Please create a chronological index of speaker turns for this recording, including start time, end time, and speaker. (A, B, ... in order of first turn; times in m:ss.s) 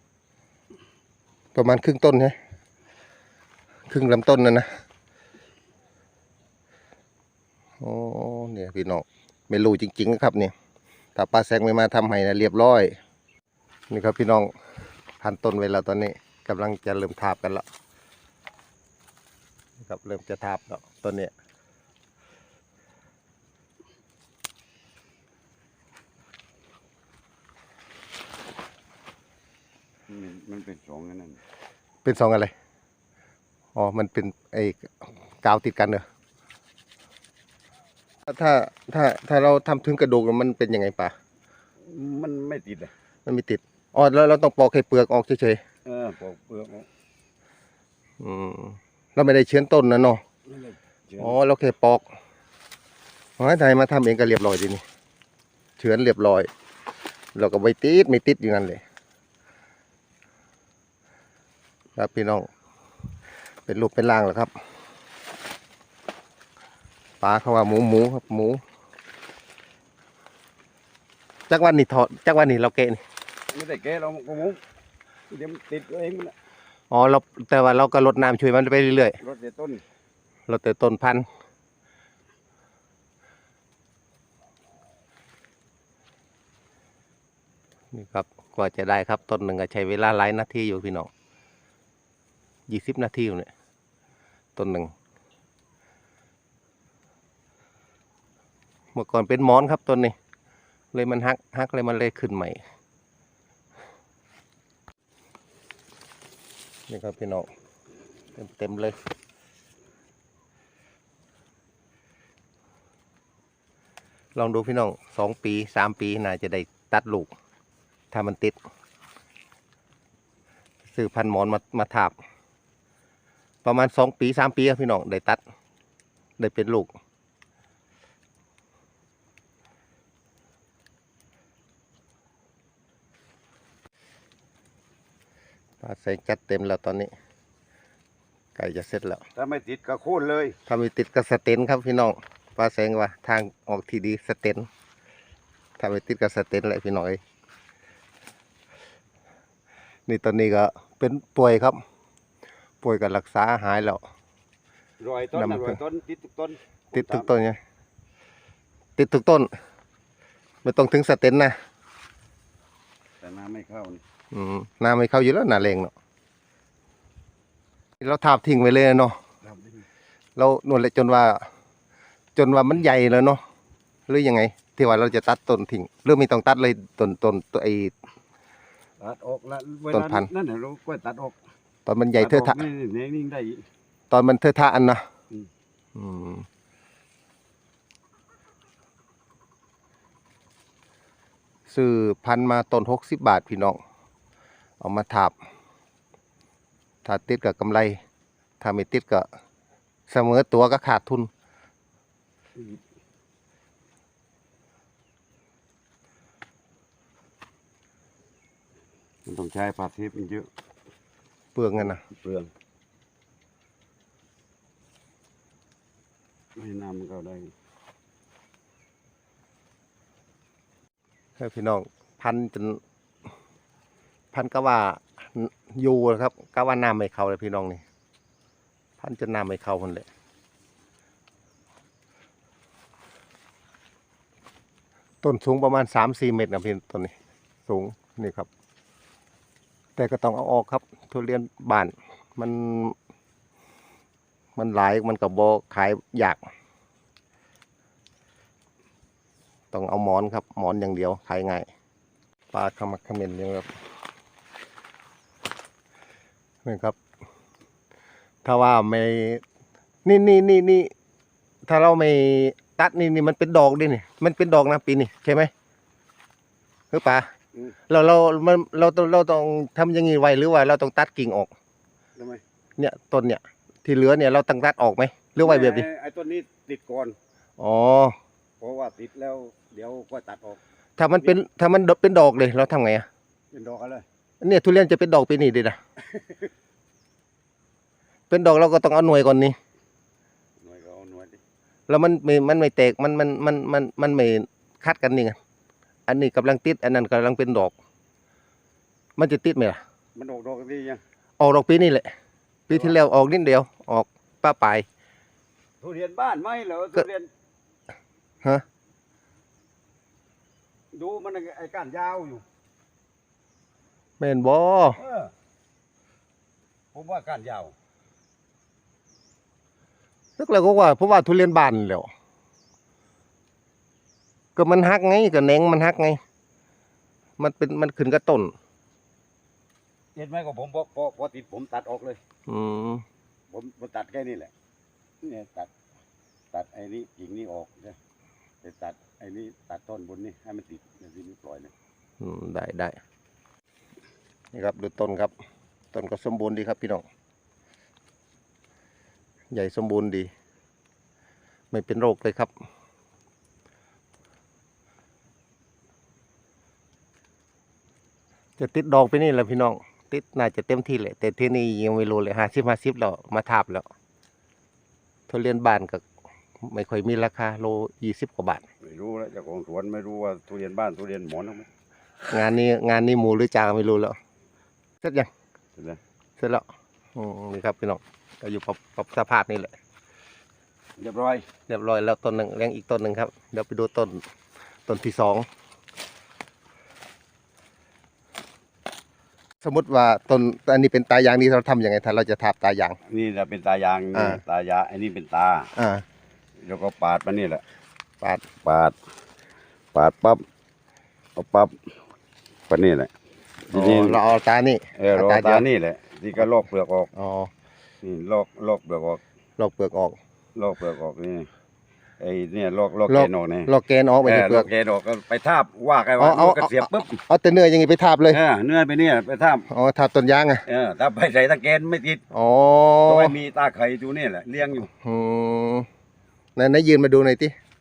0:01.6-0:02.4 A
0:03.9-0:04.7 A
0:07.8-0:10.5 A
0:11.2-0:13.0 A
0:13.9-0:14.5 A
0:15.2-0:17.6 A
0:19.8-0:21.3 A
0:30.1-0:31.4 B
0:32.0-0:32.5 A
0:33.8-0:36.0 A
0:38.3-0:41.1 A
0:41.8-0:42.9 B
0:43.3-0:45.6 A
0:45.8-0:46.9 B
0:48.2-0:50.2 A
0:50.5-0:51.4 B
0:51.2-0:52.1 A
0:53.4-0:54.8 A
0:55.8-0:56.5 A
0:57.4-0:58.8 A
1:02.0-1:02.5 A
1:03.7-1:04.5 A
1:07.2-1:08.6 A
1:11.5-1:13.0 A
1:13.5-1:14.6 B
1:15.3-1:16.3 B
1:16.9-1:19.2 A
1:19.2-1:19.8 B
1:20.5-1:21.3 A
1:27.9-1:31.1 A
1:32.7-1:33.5 A
1:34.6-1:34.9 A
1:39.0-1:40.2 A
1:40.9-1:42.6 A
1:46.9-1:47.5 A
1:48.4-1:49.0 A
1:54.4-1:57.3 A
1:58.1-1:58.6 A
2:00.9-2:02.1 A
2:03.6-2:05.4 A
2:06.4-2:06.9 A
2:15.8-2:17.1 A
2:18.6-2:19.2 A
2:19.4-2:20.6 B
2:20.7-2:24.7 A
2:25.8-2:27.2 A
2:30.1-2:31.8 A
2:32.8-2:34.0 A
2:35.0-2:37.3 B
2:35.4-2:35.8 A
2:36.9-2:37.6 A
2:39.0-2:39.5 A
2:40.6-2:41.6 A
2:43.2-2:44.0 B
2:44.3-2:45.9 A
2:48.0-2:49.2 A
2:50.4-2:51.4 A
2:52.4-2:53.4 A
2:54.1-2:57.9 A
2:59.0-3:01.4 B
2:59.9-3:00.3 A
3:01.9-3:02.6 A
3:02.2-3:03.6 B
3:04.1-3:05.0 A
3:06.0-3:06.5 A
3:11.7-3:13.8 A
3:14.8-3:15.4 A
3:17.0-3:18.0 A
3:18.6-3:19.3 A
3:20.1-3:21.3 A
3:29.3-3:30.5 B
3:31.6-3:32.0 A
3:31.8-3:32.5 B
3:36.6-3:37.5 B
3:41.4-3:42.8 A
3:44.3-3:47.8 A
3:49.0-3:50.1 A
3:55.2-3:57.1 A
3:57.7-3:58.5 A
4:00.0-4:03.0 A
4:04.6-4:06.4 A
4:09.7-4:11.7 A
4:12.5-4:13.7 A
4:16.6-4:17.0 A
4:18.4-4:19.4 A
4:20.0-4:20.9 A
4:21.6-4:25.5 A
4:26.9-4:27.3 A
4:27.9-4:31.5 A
4:32.8-4:35.9 A
4:35.4-4:37.2 B
4:37.6-4:38.2 A
4:38.6-4:40.6 B
4:41.0-4:43.1 A
4:43.5-4:44.0 B
4:44.4-4:45.8 A
4:48.3-4:49.6 A
4:50.6-4:51.4 B
4:51.9-4:55.4 A
4:56.1-4:57.7 A
4:59.2-4:59.8 A
5:00.2-5:01.0 B
5:01.4-5:02.1 A
5:02.7-5:04.9 A
5:02.7-5:03.0 B
5:05.8-5:07.3 B
5:10.9-5:12.4 B
5:14.2-5:15.0 A
5:15.0-5:15.3 B
5:16.9-5:17.7 B
5:20.4-5:22.1 A
5:24.6-5:26.2 A
5:27.4-5:28.5 A
5:30.2-5:32.2 B
5:32.5-5:33.0 A
5:33.5-5:34.5 B
5:35.2-5:35.7 B
5:36.5-5:38.0 B
5:38.6-5:41.7 B
5:42.2-5:43.0 A
5:44.5-5:45.3 A
5:45.9-5:47.0 A
5:49.5-5:50.3 A
5:51.7-5:52.5 A
5:58.6-6:03.9 A
6:05.3-6:06.0 A
6:06.6-6:08.6 A
6:08.8-6:11.7 B
6:12.3-6:14.2 A
6:15.0-6:15.3 A
6:16.4-6:19.7 A
6:21.0-6:21.4 B
6:21.7-6:24.2 A
6:24.9-6:25.5 A
6:29.6-6:33.0 A
6:33.1-6:35.7 B
6:35.8-6:36.0 A
6:36.6-6:37.6 B
6:38.6-6:39.0 B
6:39.9-6:40.4 B
6:41.4-6:41.8 B
6:42.7-6:43.1 B
6:43.7-6:44.2 B
6:43.7-6:45.6 A
6:45.0-6:47.1 B
6:47.2-6:47.5 A
6:48.0-6:49.2 B
6:49.6-6:50.2 A
6:50.6-6:51.5 B
6:52.2-6:53.7 B
6:53.1-6:54.7 A
6:54.2-6:57.2 B
6:56.2-6:58.4 A
6:58.3-6:59.7 B
6:59.7-7:00.6 A
7:00.7-7:02.2 B
7:02.3-7:03.3 A
7:03.1-7:04.9 B
7:04.8-7:05.9 A
7:06.6-7:07.5 A